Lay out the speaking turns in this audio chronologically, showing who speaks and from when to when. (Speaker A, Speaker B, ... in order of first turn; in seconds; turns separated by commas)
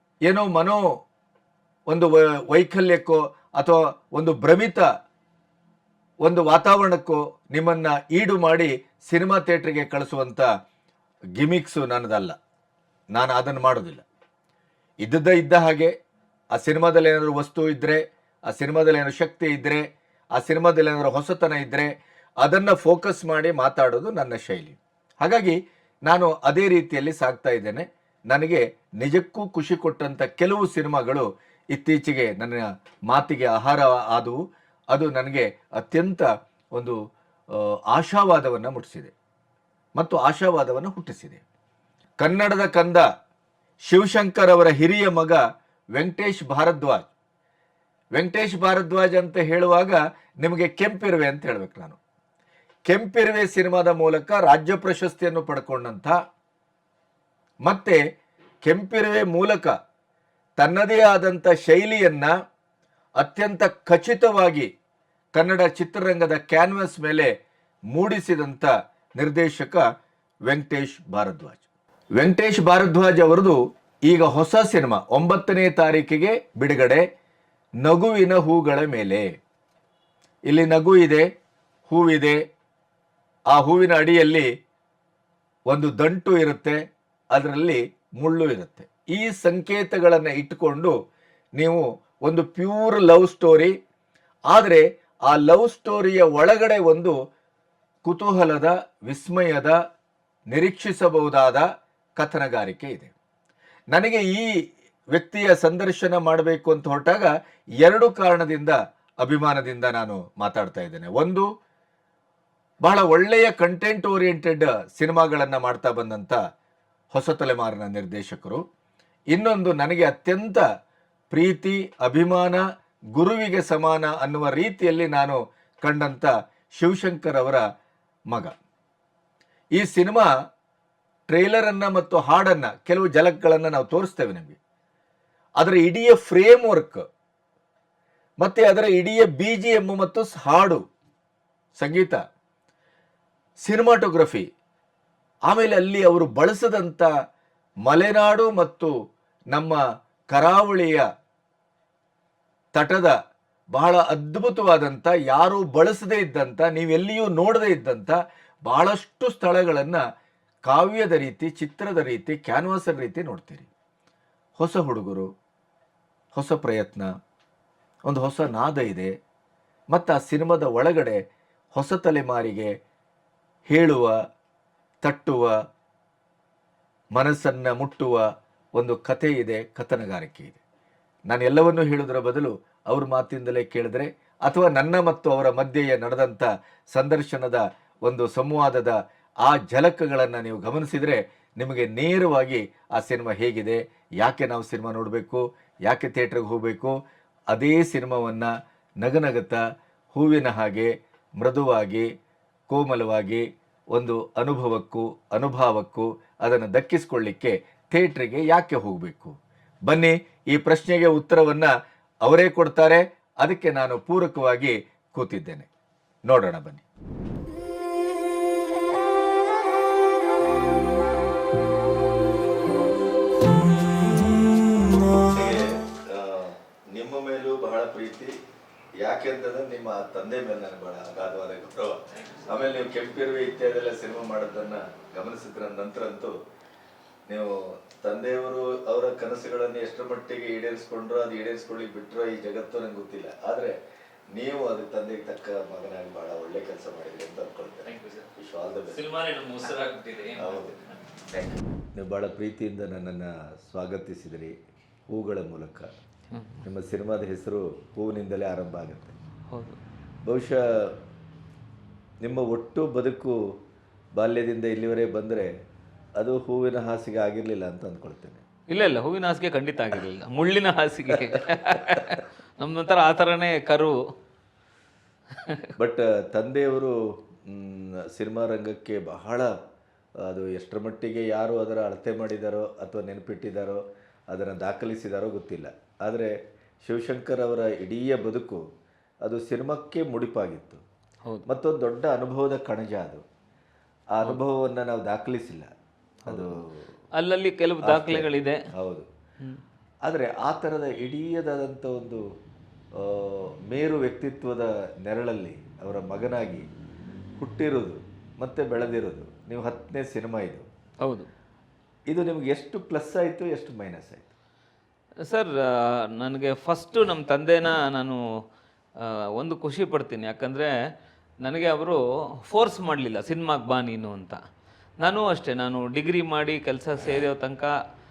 Speaker A: 0.2-0.9, Speaker A: 1.9-4.9, Speaker A: 6.2-10.5, Speaker A: 11.4-12.3, Speaker A: 13.1-14.0, Speaker A: 15.0-15.9, Speaker A: 16.5-21.9, Speaker A: 22.4-34.4, Speaker A: 34.9-37.0, Speaker A: 37.5-39.1, Speaker A: 40.0-41.4, Speaker A: 42.2-43.1, Speaker A: 43.9-45.4, Speaker A: 46.0-47.1, Speaker A: 48.1-52.0, Speaker A: 52.9-56.1, Speaker A: 57.6-58.0, Speaker A: 58.6-59.7, Speaker A: 60.6-62.3, Speaker A: 63.2-64.7, Speaker A: 65.3-67.3, Speaker A: 67.9-69.8, Speaker A: 70.5-71.6, Speaker A: 72.2-77.0, Speaker A: 77.8-79.3, Speaker A: 80.5-81.3, Speaker A: 81.9-82.4, Speaker A: 83.5-84.5, Speaker A: 85.7-86.8, Speaker A: 87.3-90.9, Speaker A: 91.6-93.7, Speaker A: 94.5-97.2, Speaker A: 98.0-99.8, Speaker A: 100.5-101.7, Speaker A: 102.2-103.1, Speaker A: 103.9-104.5, Speaker A: 105.1-111.5, Speaker A: 112.8-116.4, Speaker A: 117.1-118.6, Speaker A: 119.3-120.6, Speaker A: 121.3-122.6, Speaker A: 123.2-127.6, Speaker A: 128.3-128.6, Speaker A: 129.7-130.3, Speaker A: 131.3-134.6, Speaker A: 135.6-137.1, Speaker A: 138.4-140.8, Speaker A: 141.7-142.2, Speaker A: 143.6-144.5, Speaker A: 145.5-147.1, Speaker A: 147.8-148.9, Speaker A: 149.5-151.1, Speaker A: 152.7-153.2, Speaker A: 153.7-160.0, Speaker A: 160.7-163.7, Speaker A: 164.6-165.3, Speaker A: 166.3-167.1, Speaker A: 168.1-169.2, Speaker A: 169.9-171.2, Speaker A: 171.7-172.8, Speaker A: 173.7-174.2, Speaker A: 175.0-175.5, Speaker A: 177.1-178.2, Speaker A: 178.8-180.6, Speaker A: 181.3-196.9, Speaker A: 197.5-198.5, Speaker A: 199.0-199.6, Speaker A: 200.1-202.1, Speaker A: 202.7-211.7, Speaker A: 212.2-215.7, Speaker A: 216.3-216.8, Speaker A: 225.2-228.4, Speaker A: 229.0-236.3, Speaker A: 237.3-243.7, Speaker A: 244.3-249.0, Speaker B: 247.8-248.3, Speaker B: 248.9-251.5, Speaker A: 250.4-250.7, Speaker A: 251.9-254.6, Speaker A: 255.1-255.9, Speaker B: 256.3-256.6, Speaker A: 256.6-259.1, Speaker B: 259.5-259.8, Speaker A: 260.2-260.9, Speaker A: 262.2-263.4, Speaker A: 264.1-265.5, Speaker A: 266.2-268.4, Speaker B: 268.7-274.0, Speaker B: 275.4-275.7, Speaker A: 275.8-279.5, Speaker A: 280.2-288.6, Speaker A: 289.2-290.8, Speaker A: 291.5-293.2, Speaker A: 294.1-295.7, Speaker B: 296.2-296.6, Speaker A: 296.3-296.9, Speaker B: 297.1-298.6, Speaker A: 297.8-299.1, Speaker A: 300.0-302.2, Speaker A: 302.9-306.6, Speaker A: 307.4-310.7, Speaker B: 311.0-311.3, Speaker A: 312.1-314.3, Speaker B: 315.2-318.2, Speaker B: 319.0-320.7, Speaker B: 321.4-324.4, Speaker B: 325.0-327.7